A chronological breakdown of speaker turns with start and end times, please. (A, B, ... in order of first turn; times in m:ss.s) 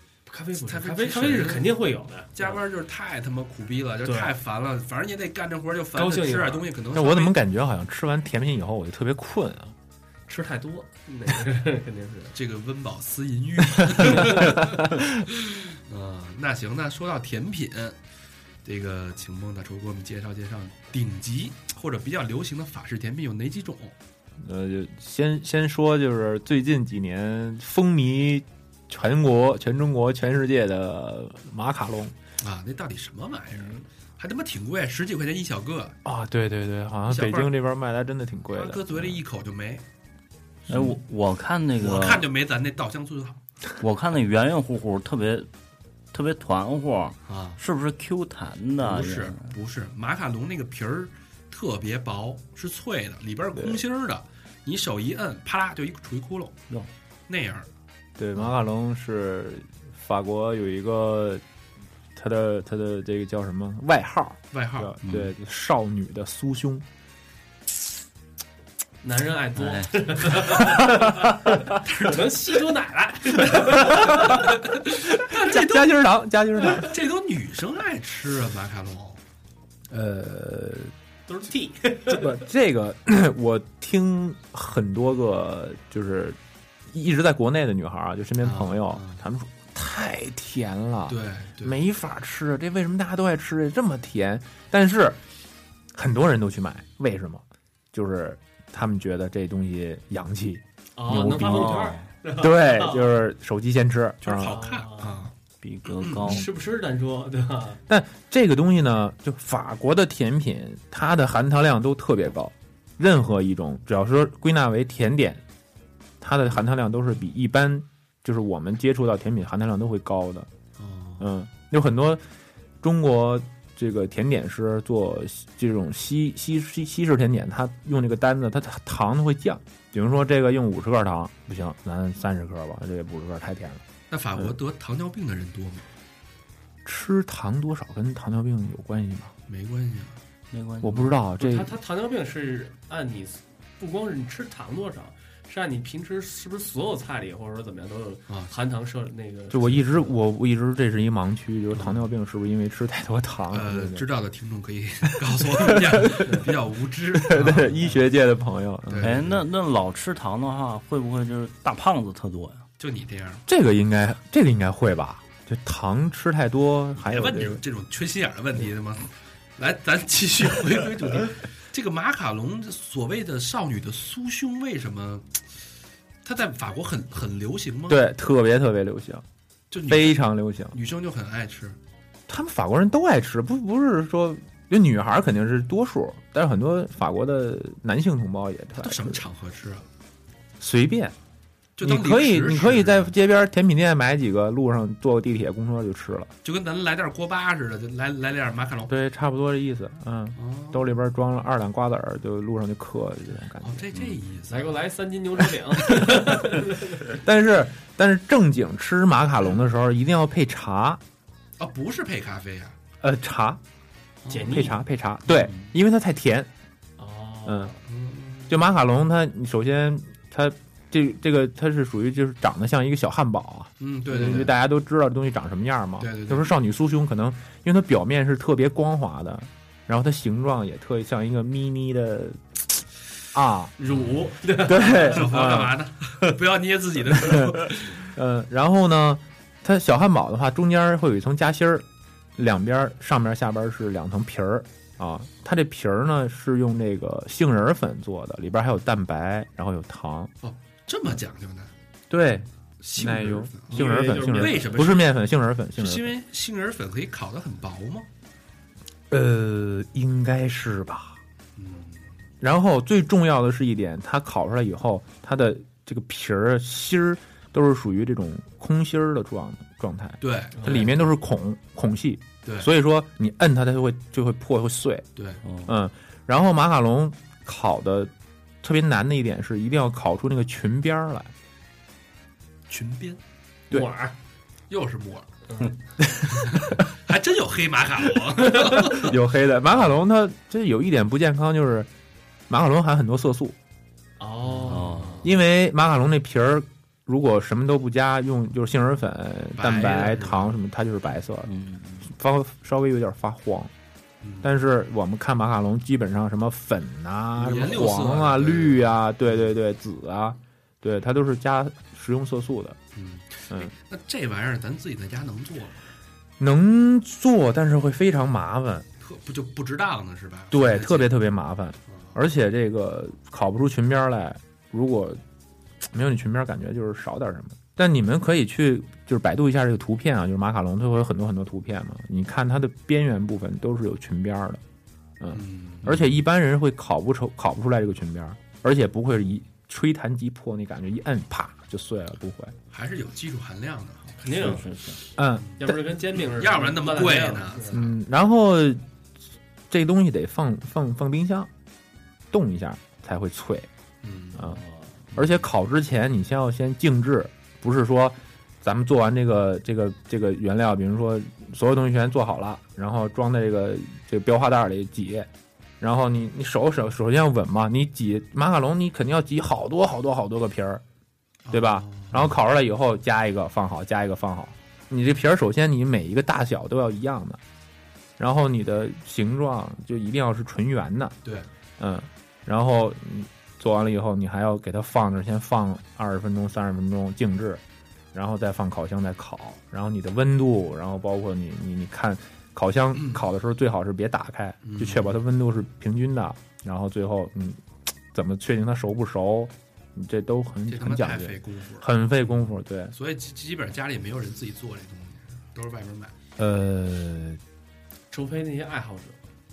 0:00.3-0:02.6 A
0:00.6-0:01.8 B
0:02.4-0:07.4 B
0:04.0-0:04.3 A
0:06.0-0:06.6 A
0:06.9-0:09.8 C
0:10.3-0:12.4 A
0:12.3-0:18.0 B
0:18.6-0:24.0 B
0:24.4-0:32.1 C
0:32.4-0:36.0 B
0:36.0-0:39.2 C
0:37.1-0:37.6 B
0:38.5-0:39.8 B
0:40.7-0:42.2 D
0:41.8-0:43.4 B
0:43.8-0:45.5 D
0:46.1-0:49.6 D
0:47.2-0:47.6 B
0:48.8-0:56.6 B
0:53.6-0:53.8 C
0:57.3-0:57.7 B
0:58.2-1:01.4 C
1:02.1-1:06.8 C
1:04.5-1:05.0 B
1:05.0-1:05.3 D
1:09.0-1:14.6 A
1:09.6-1:10.3 D
1:10.9-1:11.6 C
1:11.8-1:12.5 B
1:13.7-1:14.4 C
1:13.8-1:19.2 B
1:15.2-1:17.0 C
1:19.9-1:20.9 C
1:21.3-1:22.4 A
1:22.1-1:26.4 C
1:26.9-1:35.2 C
1:28.4-1:29.2 B
1:31.1-1:31.8 B
1:35.9-1:44.6 C
1:41.0-1:43.1 A
1:41.4-1:42.1 D
1:44.2-1:45.3 B
1:44.4-1:45.3 A
1:45.6-1:46.5 D
1:45.9-1:46.3 B
1:46.2-1:47.8 A
1:47.9-1:55.4 C
1:56.2-2:00.5 C
2:00.8-2:01.3 B
2:01.2-2:02.2 C
2:02.8-2:13.8 C
2:14.1-2:15.8 B
2:16.8-2:19.3 C
2:19.5-2:20.2 B
2:20.5-2:21.1 D
2:20.8-2:21.8 C
2:21.4-2:30.2 A
2:29.5-2:34.0 C
2:31.7-2:32.1 B
2:33.5-2:38.0 B
2:35.3-2:36.3 C
2:36.2-2:36.5 A
2:37.1-2:39.2 C
2:37.4-2:37.8 A
2:38.9-2:39.4 B
2:39.0-2:42.6 D
2:42.8-2:43.4 B
2:43.5-2:47.6 C
2:47.0-2:55.4 B
2:56.2-2:58.0 B
2:57.9-2:59.2 C
2:59.7-3:01.8 B
2:59.9-3:00.8 C
3:02.3-3:09.2 C
3:08.8-3:09.9 B
3:10.6-3:11.2 C
3:11.8-3:13.1 B
3:11.8-3:16.3 C
3:16.4-3:18.9 B
3:18.9-3:24.1 C
3:20.4-3:20.9 B
3:23.6-3:24.8 B
3:24.5-3:27.0 A
3:25.8-3:26.3 C
3:27.0-3:31.0 C
3:31.6-3:32.8 B
3:33.0-3:33.6 C
3:34.2-3:34.6 B
3:34.3-3:34.8 A
3:34.5-3:36.5 C
3:35.3-3:35.7 D
3:37.0-3:37.8 A
3:37.5-3:37.7 C
3:37.9-3:38.6 B
3:38.5-3:52.8 C
3:43.8-3:44.5 B
3:46.0-3:46.5 B
3:53.3-3:53.7 C
3:53.8-3:55.2 A
3:53.8-3:58.1 B
3:54.6-3:55.8 C
3:57.1-4:10.3 C
4:10.4-4:11.7 B
4:12.1-4:16.1 C
4:12.8-4:15.1 B
4:13.7-4:14.7 A
4:15.8-4:18.1 B
4:19.1-4:21.2 C
4:21.6-4:22.1 B
4:22.4-4:35.1 C
4:30.2-4:31.0 B
4:30.6-4:31.0 A
4:32.4-4:32.7 B
4:35.2-4:35.4 B
4:35.5-4:35.7 D
4:35.6-4:41.3 C
4:42.7-4:43.2 B
4:43.7-4:44.2 A
4:44.7-4:45.3 B
4:45.5-4:45.8 A
4:46.0-4:46.8 C
4:46.3-4:50.0 B
4:48.6-4:51.9 C
4:52.5-4:53.6 C
4:54.2-4:55.2 A
4:54.6-4:55.3 D
4:54.6-4:55.0 B
4:55.2-5:03.7 C
4:59.6-5:00.6 B
5:01.5-5:02.1 D
5:04.2-5:04.5 B
5:04.4-5:12.8 C
5:07.4-5:09.5 B
5:12.9-5:15.8 B
5:16.4-5:18.9 C
5:19.0-5:21.1 B
5:20.5-5:25.2 C
5:21.9-5:22.2 B
5:25.8-5:34.6 C
5:35.2-5:42.5 C
5:35.3-5:35.9 B
5:42.7-5:44.5 B
5:44.2-5:44.7 A
5:44.3-5:45.0 D
5:45.2-5:45.8 C
5:45.6-5:47.8 A
5:46.1-5:47.9 B
5:47.7-5:48.8 C
5:49.7-5:51.5 C
5:52.3-5:53.7 C
5:54.0-5:54.4 B
5:54.4-5:54.9 A
5:55.1-6:05.3 C
6:05.8-6:10.8 C
6:11.5-6:12.3 B
6:11.5-6:17.4 C
6:18.2-6:21.2 C
6:21.8-6:27.6 C
6:28.1-6:42.9 C
6:32.9-6:33.2 B
6:34.6-6:35.2 B
6:40.7-6:41.9 B
6:42.9-6:46.2 B
6:46.4-6:47.4 C
6:48.1-6:49.2 A